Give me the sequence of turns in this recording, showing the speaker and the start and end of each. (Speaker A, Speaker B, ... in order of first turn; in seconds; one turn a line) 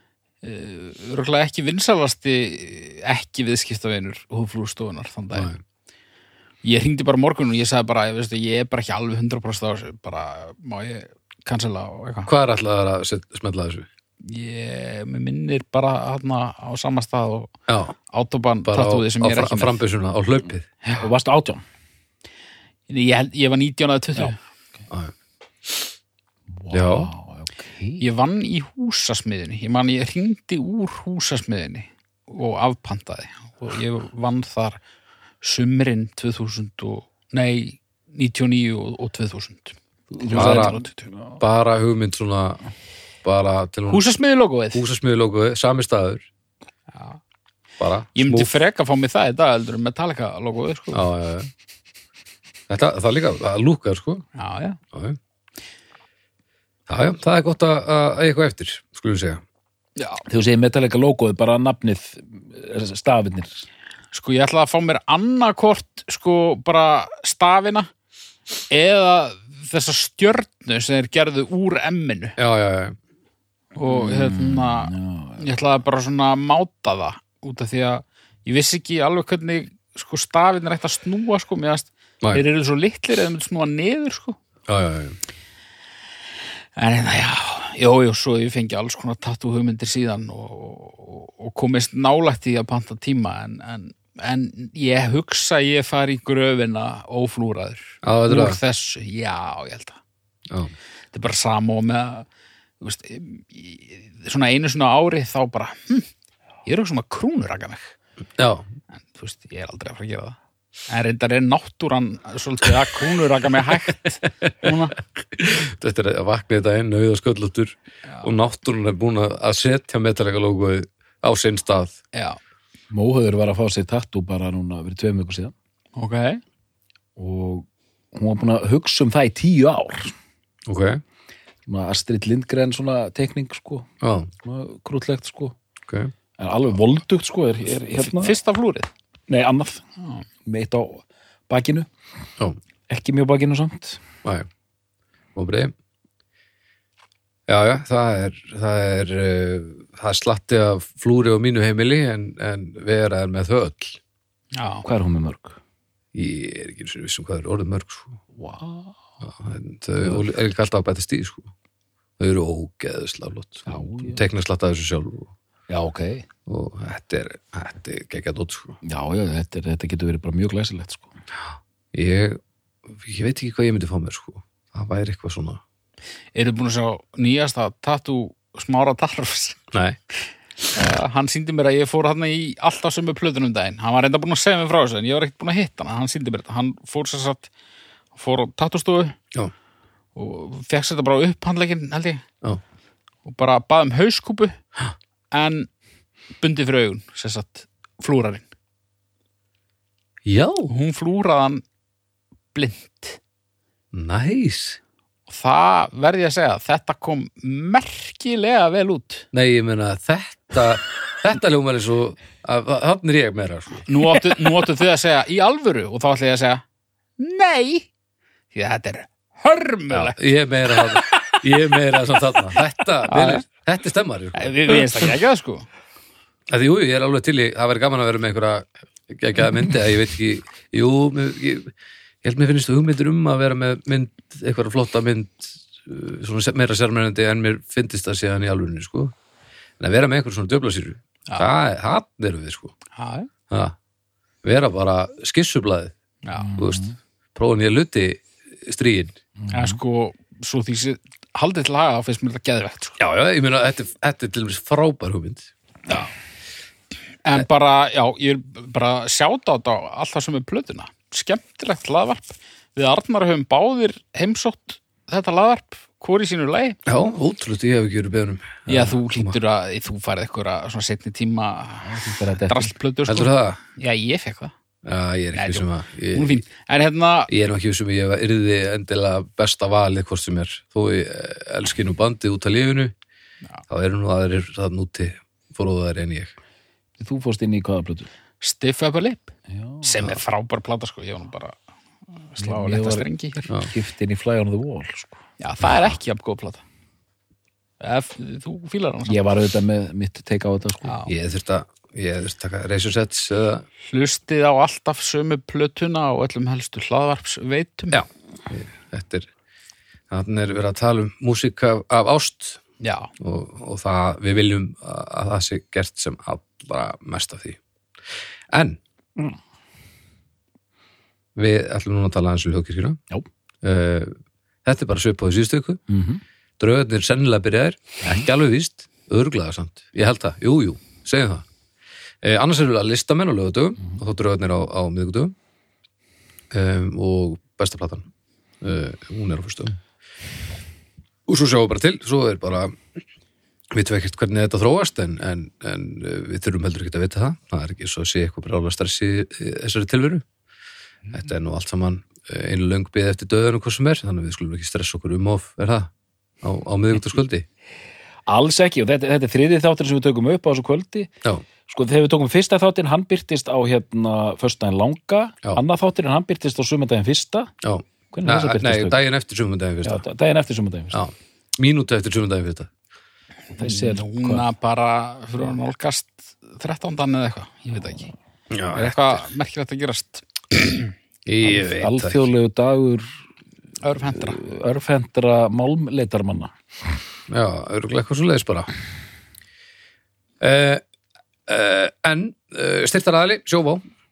Speaker A: 0.4-5.5
Speaker B: 5.3-5.6
Speaker A: 6.6-12.3
Speaker B: 12.3-13.9
Speaker A: 14.2-17.5
Speaker B: 17.7-18.0
Speaker A: 18.1-19.8
Speaker B: 18.6-20.7
Speaker C: 21.0-21.6
Speaker A: 22.9-24.4
Speaker C: 26.6-28.0
Speaker B: 26.7-27.1
Speaker A: 28.0-34.8
Speaker A: 35.4-41.1
Speaker C: 40.1-41.4
Speaker B: 40.3-40.8
Speaker B: 41.4-42.6
Speaker B: 43.2-44.1
Speaker A: 43.9-44.8
Speaker B: 44.7-46.2
Speaker B: 47.8-48.5
Speaker A: 48.2-51.0
Speaker B: 50.9-51.5
Speaker B: 52.7-54.3
Speaker A: 54.4-54.8
Speaker B: 54.9-55.2
Speaker B: 56.9-59.4
Speaker A: 60.0-60.2
Speaker C: 60.3-63.6
Speaker A: 64.1-67.9
Speaker A: 68.7-72.3
Speaker B: 72.4-73.0
Speaker A: 73.8-84.4
Speaker C: 73.9-75.5
Speaker B: 84.7-85.2
Speaker A: 86.8-100.0
Speaker B: 98.0-98.6
Speaker A: 101.1-102.3
Speaker A: 102.8-106.1
Speaker A: 106.7-107.9
Speaker B: 108.4-108.7
Speaker A: 109.1-110.4
Speaker A: 110.9-115.0
Speaker B: 114.4-122.0
Speaker A: 122.1-122.4
Speaker C: 122.9-125.5
Speaker A: 126.0-126.4
Speaker C: 127.2-130.2
Speaker B: 130.7-131.0
Speaker C: 131.7-133.9
Speaker B: 134.0-134.3
Speaker C: 134.4-135.6
Speaker B: 135.9-136.1
Speaker C: 136.4-138.4
Speaker A: 137.7-138.9
Speaker C: 139.3-139.8
Speaker C: 140.4-141.9
Speaker C: 142.9-144.0
Speaker B: 145.3-145.7
Speaker B: 147.5-154.0
Speaker A: 154.6-154.8
Speaker C: 154.8-155.6
Speaker B: 156.1-158.1
Speaker C: 158.4-159.0
Speaker B: 159.2-161.5
Speaker B: 162.2-165.3
Speaker C: 163.7-164.2
Speaker C: 165.7-166.3
Speaker B: 166.5-168.8
Speaker C: 168.8-171.1
Speaker B: 171.5-172.4
Speaker B: 172.9-175.6
Speaker A: 176.3-179.6
Speaker B: 179.7-180.0
Speaker A: 180.7-187.5
Speaker A: 188.2-189.2
Speaker A: 190.2-192.2
Speaker A: 193.2-194.6
Speaker A: 195.3-195.7
Speaker A: 196.4-198.5
Speaker B: 200.2-200.7
Speaker A: 200.7-201.6
Speaker A: 202.5-203.2
Speaker B: 203.9-204.8
Speaker A: 205.3-209.3
Speaker B: 209.3-213.9
Speaker A: 213.9-216.6
Speaker A: 217.2-217.9
Speaker A: 218.5-220.2
Speaker B: 220.2-225.1
Speaker C: 221.1-221.4
Speaker A: 223.1-223.4
Speaker A: 224.3-225.7
Speaker B: 226.5-231.7
Speaker B: 232.2-239.1
Speaker B: 239.8-242.7
Speaker A: 243.0-243.3
Speaker B: 243.5-243.8
Speaker B: 244.4-245.9
Speaker A: 246.2-246.5
Speaker C: 246.4-247.0
Speaker B: 246.6-246.8
Speaker B: 247.3-249.2
Speaker C: 249.4-249.8
Speaker A: 249.5-253.0
Speaker B: 253.0-255.5
Speaker A: 257.2-266.8
Speaker B: 266.9-269.4
Speaker A: 268.7-274.5
Speaker C: 271.8-272.7
Speaker B: 273.1-273.6
Speaker B: 274.8-276.3
Speaker A: 275.3-277.3
Speaker B: 277.3-282.9
Speaker B: 283.7-286.3
Speaker C: 287.0-288.1
Speaker A: 288.4-291.6
Speaker C: 289.5-289.9
Speaker A: 292.3-293.5
Speaker C: 292.4-293.1
Speaker C: 293.7-295.2
Speaker A: 295.4-296.6
Speaker A: 297.8-299.2
Speaker C: 299.1-300.9
Speaker A: 300.9-301.1
Speaker B: 301.1-303.6
Speaker A: 303.9-308.0
Speaker B: 307.9-309.3
Speaker B: 310.1-312.6
Speaker A: 312.8-313.1
Speaker B: 313.2-318.8
Speaker B: 321.4-323.0
Speaker B: 323.6-325.8
Speaker C: 325.9-326.2
Speaker B: 326.6-331.4
Speaker B: 332.2-335.4
Speaker B: 336.5-338.1
Speaker B: 338.6-339.8
Speaker B: 341.3-342.8
Speaker B: 343.7-350.2
Speaker B: 351.1-355.9
Speaker B: 356.4-357.5
Speaker C: 358.3-361.1
Speaker C: 361.7-367.5
Speaker B: 367.6-370.0
Speaker C: 368.1-369.0
Speaker C: 369.8-371.0
Speaker B: 370.9-372.7
Speaker C: 373.6-374.5
Speaker A: 373.6-378.1
Speaker B: 378.5-379.2
Speaker A: 378.7-380.9
Speaker B: 381.3-382.2
Speaker C: 381.4-383.1
Speaker A: 383.8-384.4
Speaker C: 384.1-386.5
Speaker B: 387.3-388.7
Speaker B: 390.4-390.8
Speaker B: 391.5-393.8